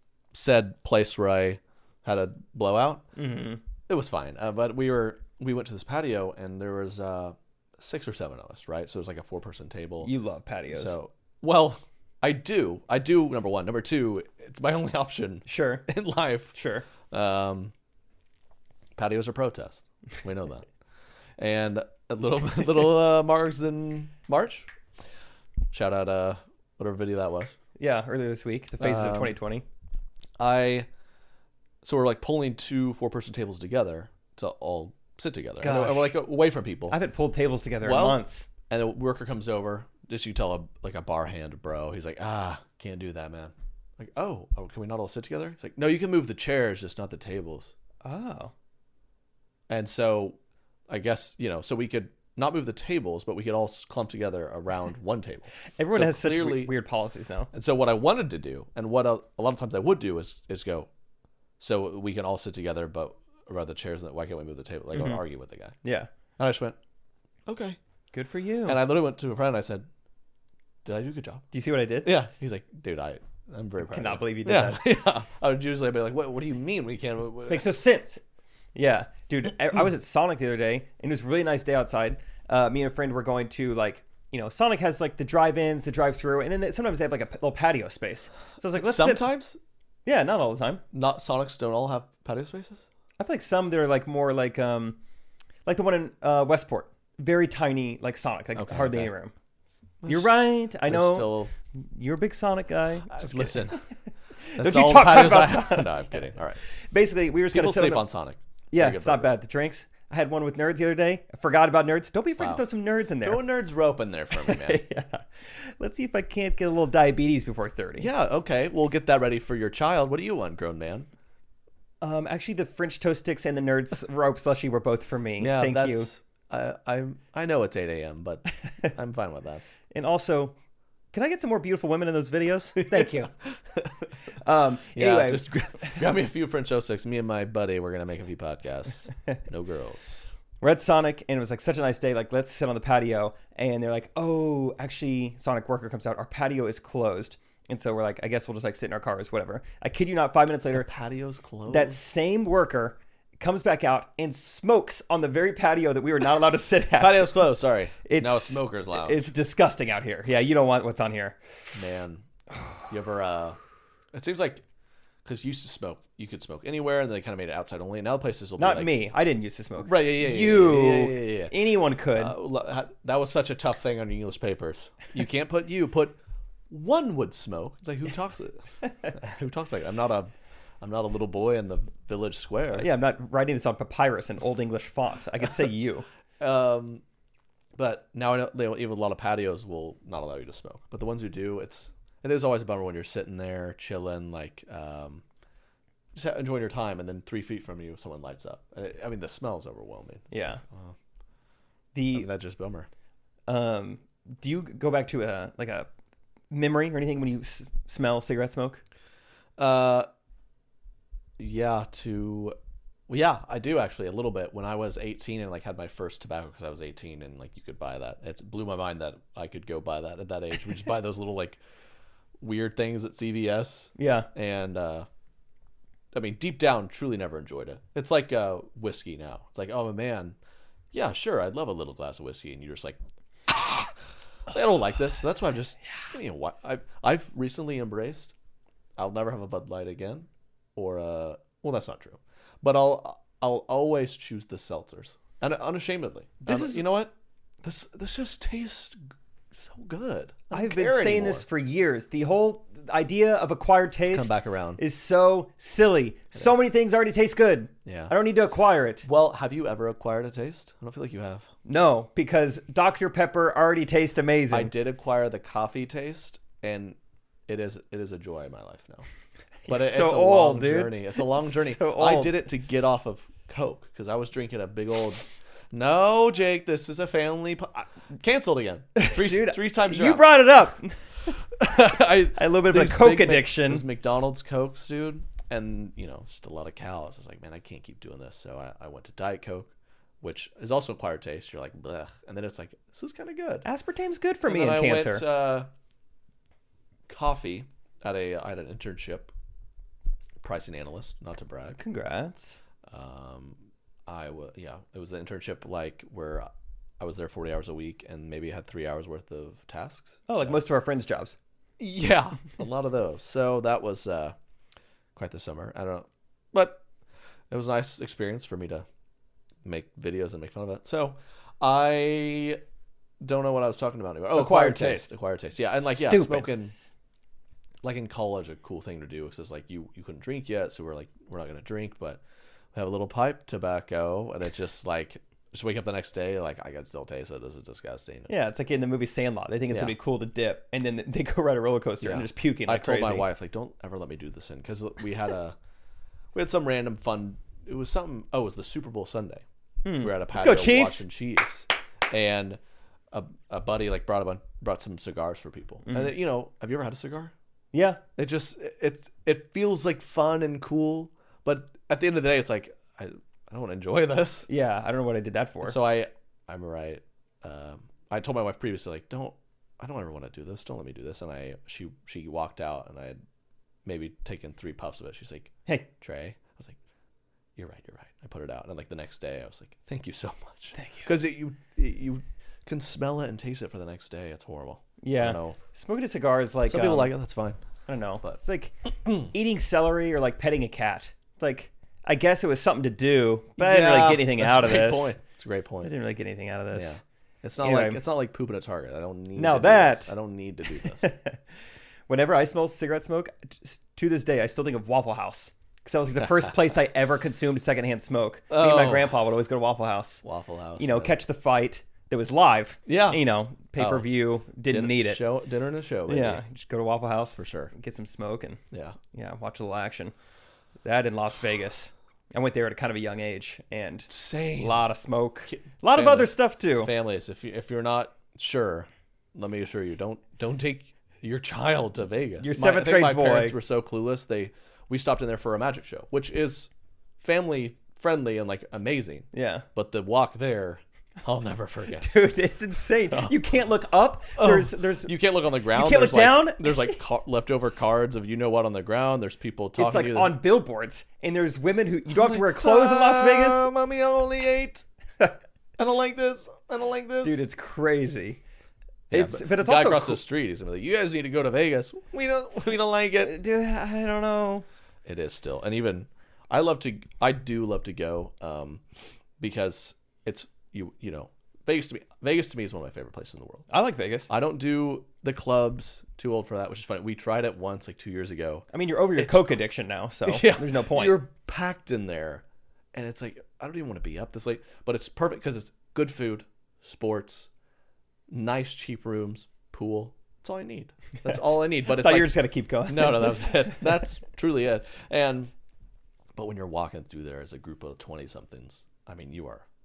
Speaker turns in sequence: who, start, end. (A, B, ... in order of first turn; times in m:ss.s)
0:00.3-0:03.0 A
0:03.2-0:03.6 B
0:03.9-0:10.1 A
0:10.0-0:11.0 B
0:10.7-0:16.6 A
0:15.5-0:15.9 B
0:16.5-0:16.9 B
0:17.1-0:17.7 A
0:19.0-0:20.7 A
0:21.4-0:24.7 A
0:25.7-0:27.6 A
0:27.8-0:29.6 B
0:28.8-0:29.4 A
0:30.4-0:30.9 A
0:31.8-0:37.0 A
0:35.6-0:36.2 B
0:36.9-0:38.5 B
0:37.8-0:47.7 A
0:48.0-0:48.5 B
0:49.7-0:56.7 A
0:55.8-0:57.5 B
0:57.5-1:00.9 A
1:01.6-1:05.8 A
1:04.9-1:05.2 B
1:05.8-1:06.1 B
1:06.4-1:06.8 A
1:07.5-1:07.8 A
1:08.1-1:08.8 B
1:08.7-1:09.9 A
1:10.8-1:11.5 A
1:11.5-1:12.1 B
1:12.0-1:17.7 A
1:13.8-1:14.8 B
1:17.4-1:18.2 B
1:18.8-1:29.2 B
1:28.7-1:29.6 A
1:30.1-1:30.8 B
1:30.9-1:32.8 A
1:33.2-1:35.0 B
1:35.7-1:39.3 B
1:38.6-1:39.1 A
1:40.0-1:41.5 A
1:40.1-1:43.7 B
1:43.1-1:43.8 A
1:44.5-1:46.1 B
1:44.6-1:46.6 A
1:46.8-1:48.1 B
1:47.5-1:49.4 A
1:48.7-1:53.4 B
1:53.2-1:54.8 A
1:54.4-1:58.1 B
1:58.0-2:01.1 A
2:02.0-2:06.1 B
2:05.4-2:09.6 A
2:09.9-2:10.5 B
2:11.1-2:13.3 B
2:12.8-2:13.9 A
2:14.4-2:15.4 B
2:14.9-2:20.3 A
2:20.6-2:30.9 B
2:30.7-2:32.0 A
2:31.7-2:37.4 B
2:37.0-2:39.3 A
2:38.0-2:41.4 B
2:41.7-2:42.3 A
2:42.9-2:43.6 A
2:44.1-2:44.6 A
2:45.2-2:48.9 A
2:48.6-2:52.4 B
2:49.8-2:51.6 A
2:52.1-2:56.2 A
2:56.7-3:02.9 A
3:02.7-3:06.1 B
3:06.4-3:07.0 A
3:07.8-3:15.2 A
3:16.1-3:21.0 A
3:20.3-3:20.6 B
3:21.9-3:22.3 B
3:22.1-3:22.9 A
3:23.5-3:25.9 B
3:26.5-3:28.8 B
3:29.6-3:30.1 A
3:31.4-3:32.6 A
3:33.1-3:41.6 A
3:42.4-3:45.1 A
3:44.0-3:44.3 B
3:46.1-3:50.4 A
3:50.9-3:53.9 A
3:54.5-3:58.3 A
3:59.0-4:07.1 A
4:06.5-4:06.8 B
4:07.6-4:09.0 A
4:09.5-4:11.5 A
4:10.5-4:19.1 B
4:14.0-4:14.8 A
4:17.8-4:18.1 A
4:19.0-4:21.5 A
4:21.6-4:24.7 B
4:24.5-4:27.0 A
4:27.5-4:29.1 A
4:29.7-4:32.4 B
4:29.7-4:40.4 A
4:39.0-4:41.0 B
4:41.6-4:53.7 A
4:42.3-4:43.8 B
4:53.6-4:55.2 B
4:54.4-4:55.7 A
4:57.1-4:59.3 A
5:00.4-5:01.8 A
5:01.8-5:02.6 B
5:02.9-5:10.6 A
5:10.3-5:11.4 B
5:11.8-5:14.4 A
5:15.2-5:16.8 A
5:17.5-5:18.9 A
5:19.6-5:22.6 A
5:23.2-5:26.7 A
5:24.3-5:25.1 B
5:25.8-5:26.5 B
5:27.8-5:32.2 A
5:32.7-5:38.3 A
5:38.3-5:43.3 B
5:39.7-5:40.0 A
5:42.0-5:45.6 A
5:46.3-5:49.4 A
5:49.8-5:51.1 B
5:50.0-5:52.6 A
5:53.1-5:57.3 A
5:55.9-5:56.1 B
5:57.7-5:58.0 B
5:58.2-6:04.5 A
6:04.5-6:05.8 B
6:05.6-6:13.2 A
6:13.8-6:16.8 A
6:17.6-6:25.6 A
6:20.8-6:21.1 B
6:25.0-6:27.1 B
6:26.7-6:27.6 A
6:27.9-6:35.2 B
6:33.6-6:35.9 A
6:35.8-6:37.0 B
6:36.7-6:41.1 A
6:37.6-6:38.0 B
6:39.4-6:40.1 B
6:40.8-6:41.4 B
6:42.1-6:50.2 B
6:48.5-6:49.2 A
6:50.2-6:51.2 A
6:50.8-6:55.2 B
6:52.9-6:53.2 A
6:53.8-6:56.4 A
6:56.1-6:58.6 B
6:57.4-6:57.7 A
6:58.7-6:59.0 A
6:59.1-7:00.1 B
7:00.8-7:06.9 B
7:04.1-7:04.8 A
7:05.5-7:22.2 A
7:12.4-7:13.6 B
7:19.3-7:19.6 B
7:22.0-7:25.1 B
7:23.1-7:23.4 A
7:24.4-7:30.4 A
7:25.7-7:27.0 B
7:29.8-7:33.7 B
7:32.1-7:34.8 A
7:35.8-7:37.4 A
7:37.2-7:38.4 B
7:39.1-7:40.2 B
7:39.1-7:43.3 A
7:43.2-7:44.7 B
7:45.0-7:48.8 A
7:49.4-7:53.7 A
7:53.7-7:54.3 B
7:54.3-7:59.6 A
7:58.7-8:01.2 B
8:00.3-8:07.5 A
8:08.3-8:15.5 A
8:11.8-8:13.7 B
8:16.4-8:19.7 A